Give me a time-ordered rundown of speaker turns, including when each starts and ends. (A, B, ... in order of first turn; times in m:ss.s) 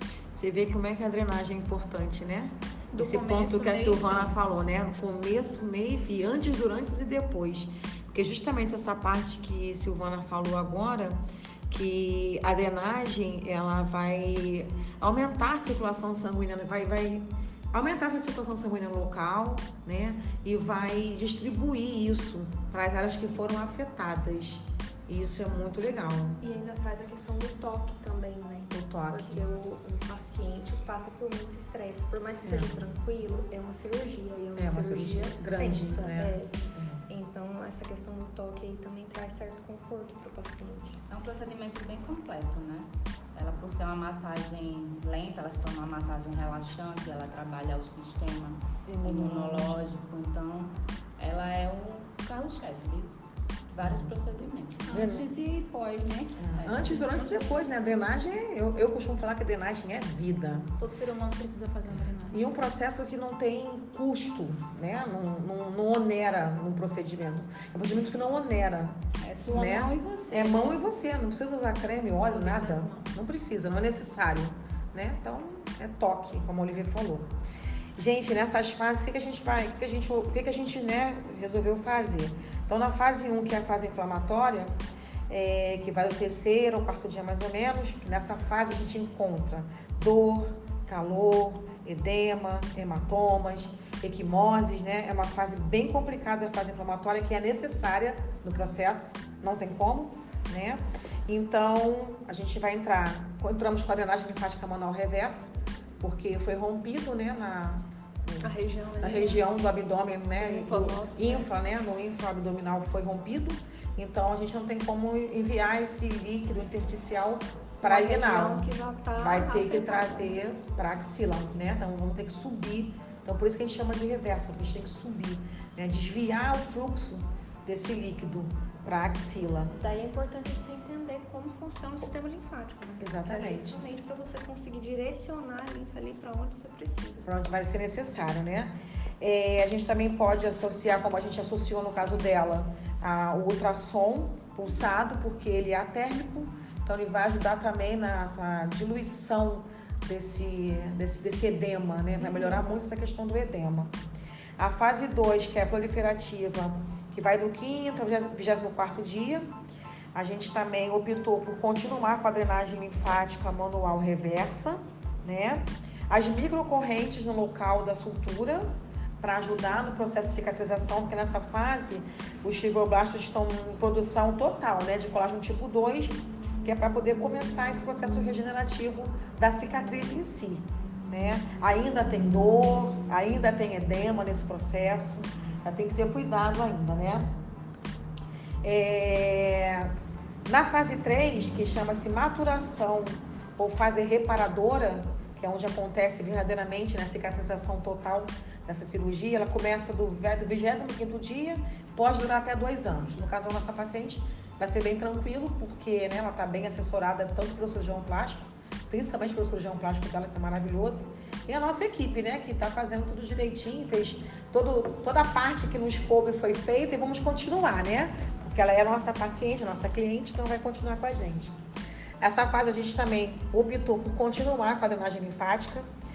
0:00.3-0:26.4 A
0:03.0-0:04.3 B
0:26.4-0:36.6 C
0:28.7-0:29.4 A
0:32.4-0:32.8 A
0:34.6-0:37.0 A
0:37.1-0:41.0 C
0:41.1-0:53.1 D
0:48.9-0:49.8 A
0:53.7-0:55.0 D
0:53.8-0:54.1 A
0:54.9-0:56.7 E
0:54.9-0:55.3 A
0:56.4-1:00.7 A
0:56.8-0:57.6 B
1:00.8-1:02.5 B
1:02.3-1:09.0 A
1:09.2-1:10.8 E
1:09.5-1:17.3 A
1:12.3-1:13.2 B
1:18.0-1:24.7 A
1:25.3-1:45.5 A
1:46.0-2:09.7 A
1:48.4-1:49.4 C
1:50.4-1:51.5 C
1:57.8-2:00.4 C
2:09.7-2:17.3 C
2:13.0-2:13.8 A
2:17.2-2:34.0 A
2:32.2-2:32.6 C
2:34.6-2:39.5 A
2:40.1-3:07.3 A
3:08.6-3:09.9 A
3:10.5-3:41.6 A
3:42.2-3:45.9 A